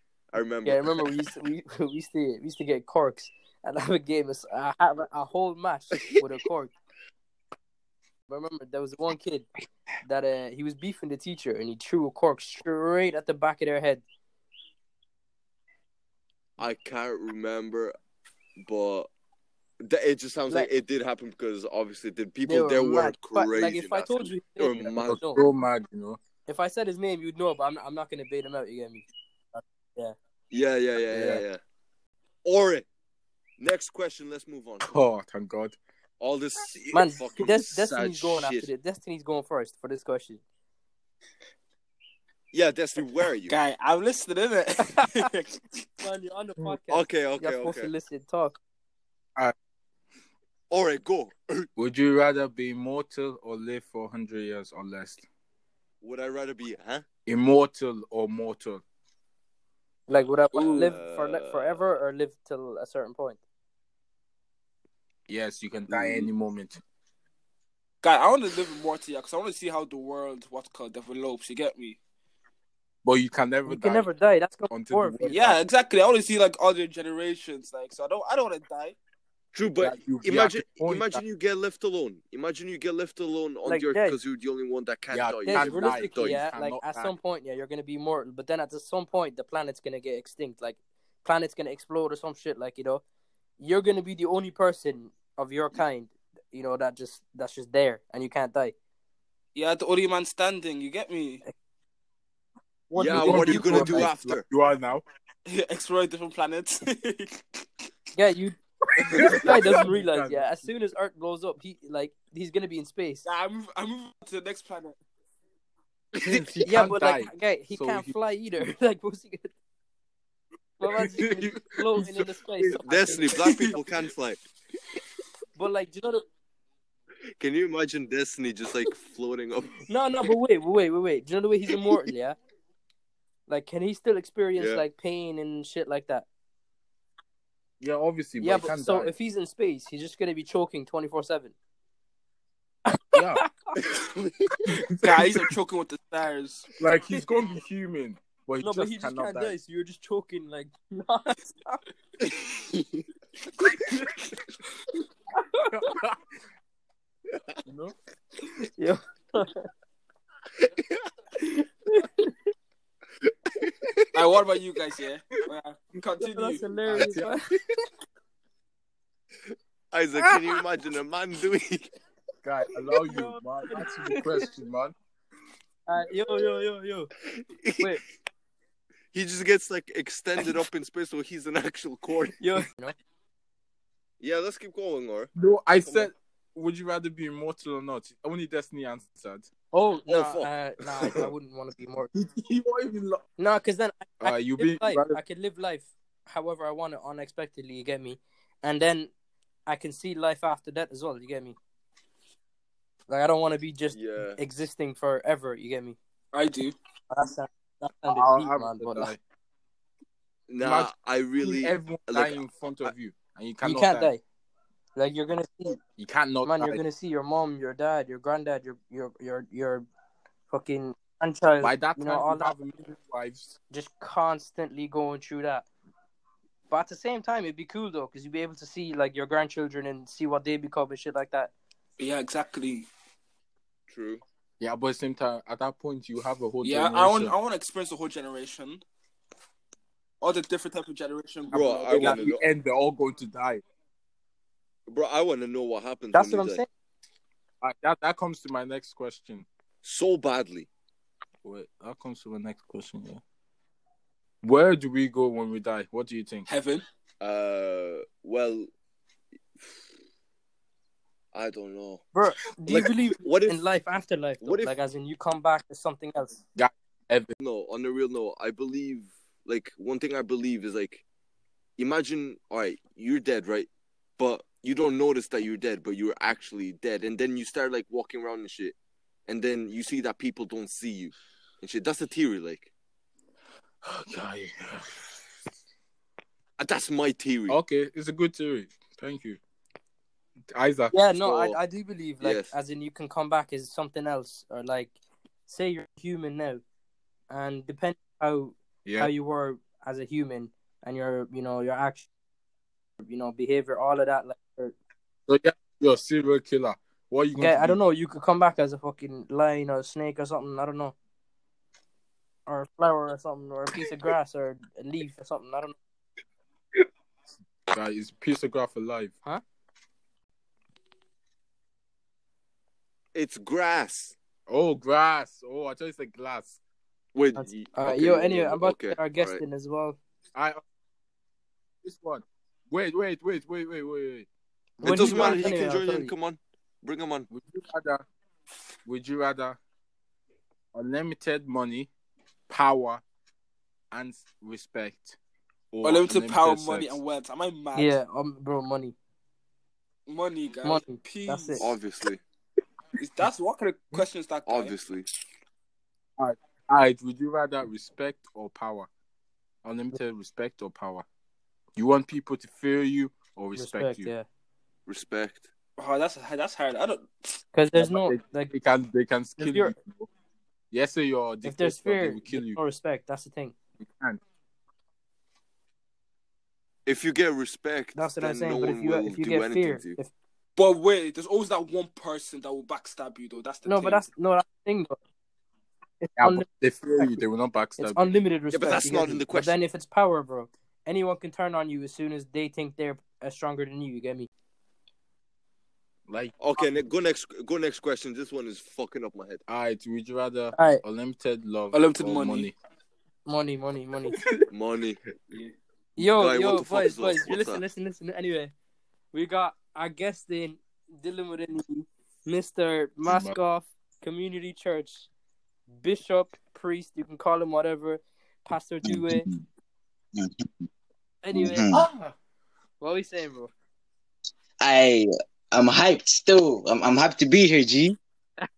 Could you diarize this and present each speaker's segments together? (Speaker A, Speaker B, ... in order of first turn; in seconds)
Speaker A: 0.3-1.1, 16.6-17.9, 18.6-19.1, 19.8-25.3, 30.5-31.6, 32.4-32.9, 33.6-35.0, 36.2-38.7, 42.5-43.5, 46.9-47.9, 50.7-51.7, 56.0-57.1, 60.6-61.8, 79.5-86.5, 103.0-104.5, 122.8-124.4, 127.4-129.8, 134.6-134.8, 143.8-144.5, 160.6-161.0, 163.6-164.0, 169.9-171.9, 177.6-177.9, 179.1-182.4, 184.2-185.3, 185.8-186.1, 190.1-190.5, 203.9-204.4, 210.5-212.9, 233.9-234.2, 241.5-242.4, 244.9-246.6, 249.8-250.7, 257.2-258.7, 261.3-262.1, 262.7-263.6, 264.4-264.7, 267.4-271.1, 271.8-278.8, 279.3-282.7, 286.6-287.6, 291.2-291.6, 292.2-292.5, 323.1-324.1, 327.1-329.4, 334.8-337.3, 351.6-352.2, 354.5-355.1, 364.9-365.5, 376.9-380.0, 388.5-389.6, 396.4-399.4, 404.5-405.0, 406.0-407.6
Speaker B: 0.7-6.7, 8.3-9.5, 10.1-14.0, 22.5-25.5, 26.5-30.2, 31.1-31.4, 36.9-40.4, 44.9-45.3, 46.0-48.6, 60.1-63.4, 73.7-75.3, 83.7-84.2, 85.5-93.0, 93.6-98.8, 108.2-113.2, 116.3-119.5, 120.8-123.4, 125.6-126.2, 129.9-132.4, 133.5-136.3, 138.4-141.5, 142.9-143.7, 148.6-151.8, 155.4-155.9, 158.6-159.7, 161.4-162.3, 166.2-167.6, 172.8-174.5, 175.9-177.1, 182.4-182.9, 189.7-192.1, 193.4-199.1, 199.7-201.6, 203.1-206.0, 207.1-209.1, 213.6-214.2, 214.9-215.8, 216.4-219.9, 220.5-222.6, 223.7-225.7, 226.7-231.5, 246.1-246.7, 262.1-266.4, 290.9-294.9, 295.5-296.6, 297.3-302.1, 303.0-304.8, 307.4-310.9, 312.5-315.8, 327.4-330.0, 334.8-336.1, 347.8-348.9, 350.6-351.7, 363.6-364.3, 367.5-368.5, 369.4-369.8, 371.4-373.6, 377.9-380.1, 383.7-385.0, 386.0-387.2, 387.8-394.3, 400.5-400.8, 403.3-404.2, 406.0-408.5, 409.1-415.1, 415.7-419.3, 421.2-421.8, 422.8-423.5
Speaker C: 25.1-26.2, 34.9-35.8, 51.8-55.2, 57.3-58.8, 65.3-66.8, 73.0-74.1, 74.7-75.6, 79.8-81.2, 85.1-87.1, 103.0-105.0, 109.2-110.4, 116.2-118.1, 121.2-122.7, 137.8-139.1, 146.8-149.5, 166.9-167.3, 172.4-174.9, 185.4-189.5, 192.2-193.2, 194.2-195.2, 208.2-209.2, 210.6-210.9, 211.4-214.1, 216.0-216.8, 221.6-223.5, 234.6-237.3, 241.9-243.6, 247.6-249.5, 251.4-253.2, 254.4-256.5, 266.6-267.3, 284.1-284.8, 287.5-289.4, 290.5-290.9, 298.9-299.1, 305.3-307.8, 317.7-319.1, 324.5-326.6, 331.8-334.3, 335.0-335.4, 337.3-338.0, 338.9-339.6, 340.7-341.9, 342.5-343.0, 343.9-345.2, 345.7-346.9, 356.2-358.9, 359.6-361.1, 361.8-364.1, 367.8-370.1, 370.7-372.6, 386.2-388.0, 396.1-396.3, 399.5-402.5
Speaker D: 43.5-45.8, 60.5-60.9, 65.9-66.2, 68.0-72.0, 75.3-79.0, 99.5-101.4, 103.0-103.8, 105.5-107.6, 113.2-115.0, 123.4-123.8, 145.0-146.7, 164.1-166.7, 206.3-206.8, 232.0-232.9, 236.6-238.8, 240.2-242.3, 256.5-256.8, 345.8-348.0, 350.1-351.7, 353.0-354.8, 365.8-367.3, 380.6-384.1, 401.7-402.5
Speaker E: 418.8-419.4, 420.1-420.5, 421.3-421.8, 424.6-428.0